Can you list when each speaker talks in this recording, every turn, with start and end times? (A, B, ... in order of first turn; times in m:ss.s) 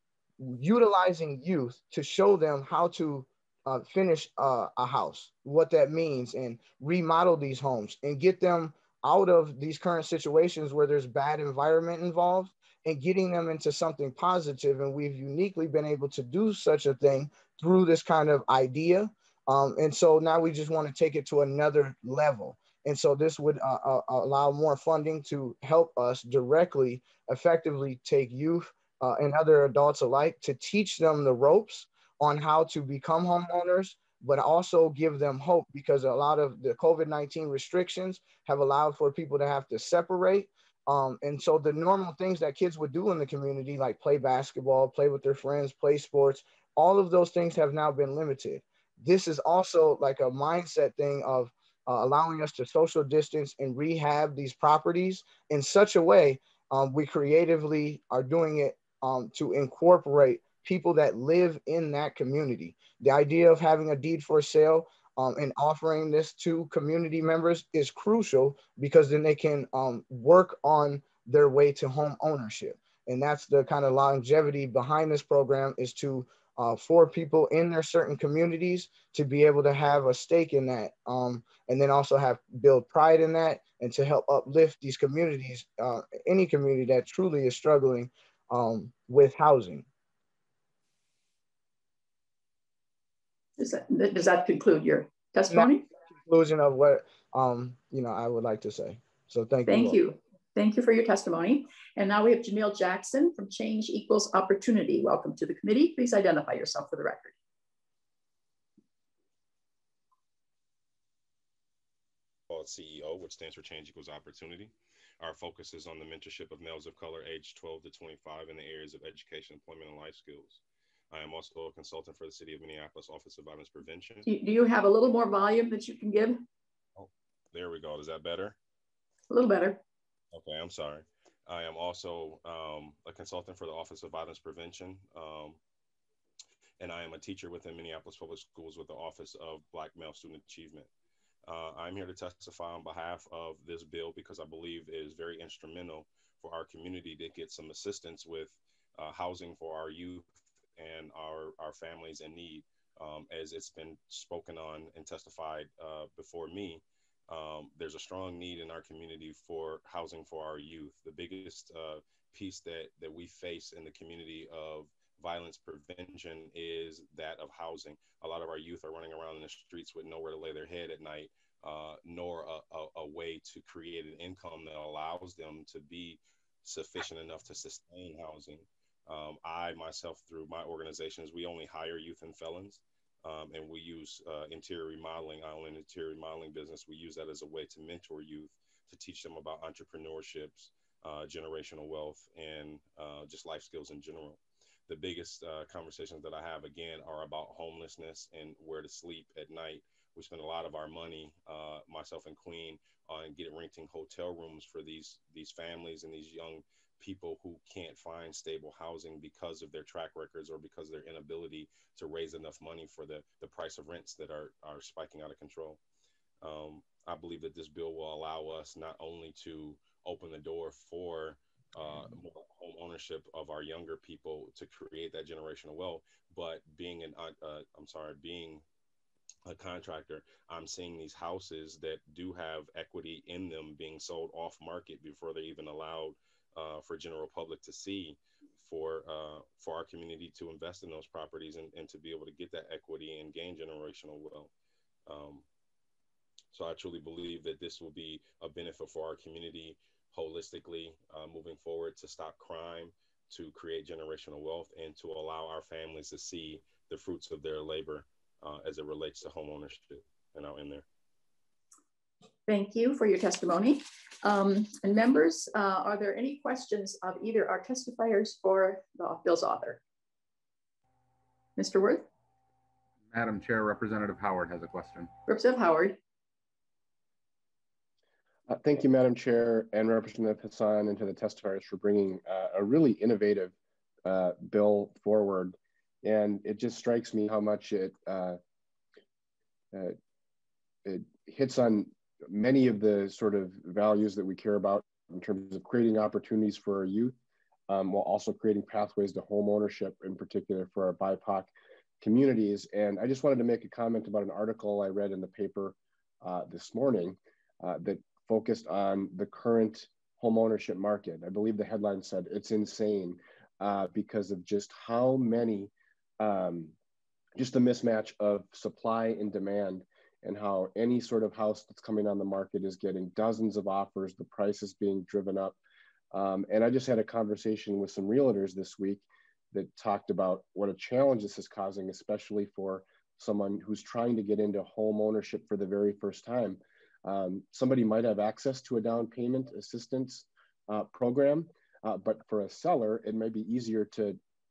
0:00.4-1:29.8 A
1:33.6-1:35.9 B
1:36.2-1:40.0 A
1:39.7-1:47.3 B
1:52.5-2:04.3 C
2:04.3-2:06.4 B
2:07.0-2:08.6 C
2:09.3-2:09.8 B
2:10.3-2:15.6 C
2:16.8-2:20.9 C
2:21.5-3:35.8 C
3:36.4-3:48.6 C
3:49.5-4:04.5 C
4:05.1-4:05.4 C
4:06.5-4:20.8 C
4:22.5-4:29.8 B
4:31.6-4:32.1 B
4:33.1-4:35.1 D
4:35.3-4:36.0 B
4:38.5-4:43.5 E
4:44.0-4:48.4 E
4:50.8-4:57.2 E
4:57.7-5:16.7 E
5:17.4-5:25.6 E
5:26.1-5:44.2 E